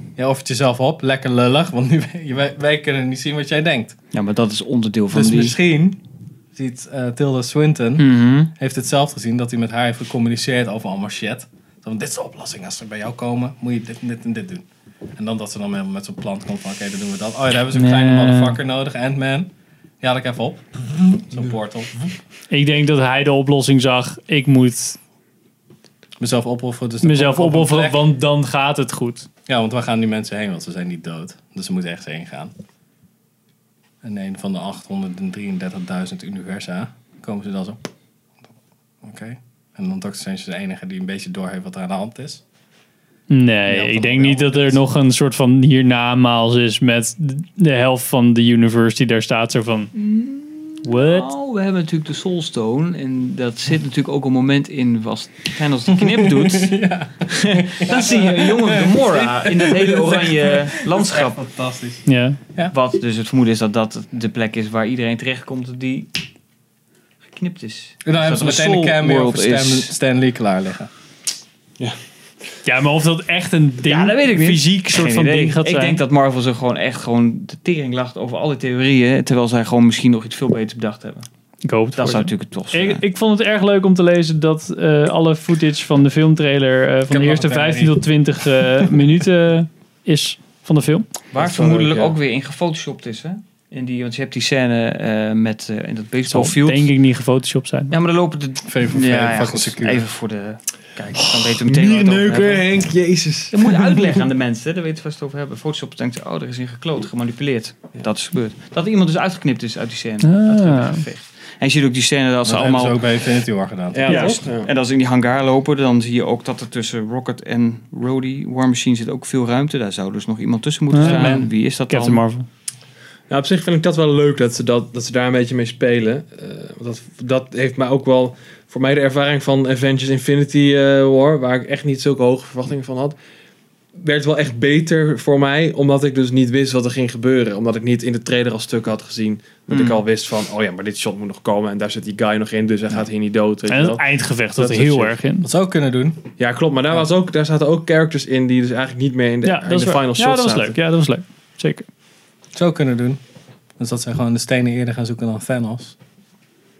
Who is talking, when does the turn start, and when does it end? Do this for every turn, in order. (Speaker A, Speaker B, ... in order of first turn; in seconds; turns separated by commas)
Speaker A: 0.2-4.0, Speaker B: 4.1-5.6, Speaker A: 5.1-6.0, Speaker A: 6.5-19.5, Speaker B: 8.0-8.5, Speaker C: 17.7-18.6, Speaker A: 20.0-22.1, Speaker C: 22.5-25.0, Speaker A: 26.2-28.0, Speaker C: 27.0-29.3, Speaker A: 29.4-32.5, Speaker A: 34.0-37.8, Speaker A: 39.0-42.4, Speaker C: 43.3-49.9, Speaker A: 43.7-44.8, Speaker B: 49.9-61.4, Speaker C: 50.8-51.3, Speaker A: 56.0-62.7, Speaker C: 62.0-62.4, Speaker B: 62.7-66.1, Speaker B: 67.2-69.9, Speaker A: 68.0-70.9, Speaker C: 72.6-76.0, Speaker B: 73.8-81.3, Speaker C: 81.6-91.1, Speaker B: 82.0-83.0, Speaker A: 87.1-88.0, Speaker D: 91.3-92.1, Speaker B: 91.3-96.9, Speaker C: 96.3-97.9, Speaker B: 97.9-102.7, Speaker A: 98.7-100.0, Speaker D: 101.2-104.2, Speaker B: 103.5-113.1, Speaker C: 110.2-111.0, Speaker A: 112.4-114.4, Speaker D: 113.9-114.7, Speaker C: 114.1-114.4, Speaker B: 114.1-122.2, Speaker C: 120.9-122.5, Speaker A: 121.0-121.4, Speaker D: 123.3-133.2, Speaker D: 133.9-145.2, Speaker B: 139.7-140.0, Speaker C: 143.7-145.5, Speaker A: 145.4-146.2, Speaker D: 146.4-150.8, Speaker C: 149.4-151.8, Speaker A: 152.5-153.2, Speaker A: 153.8-155.9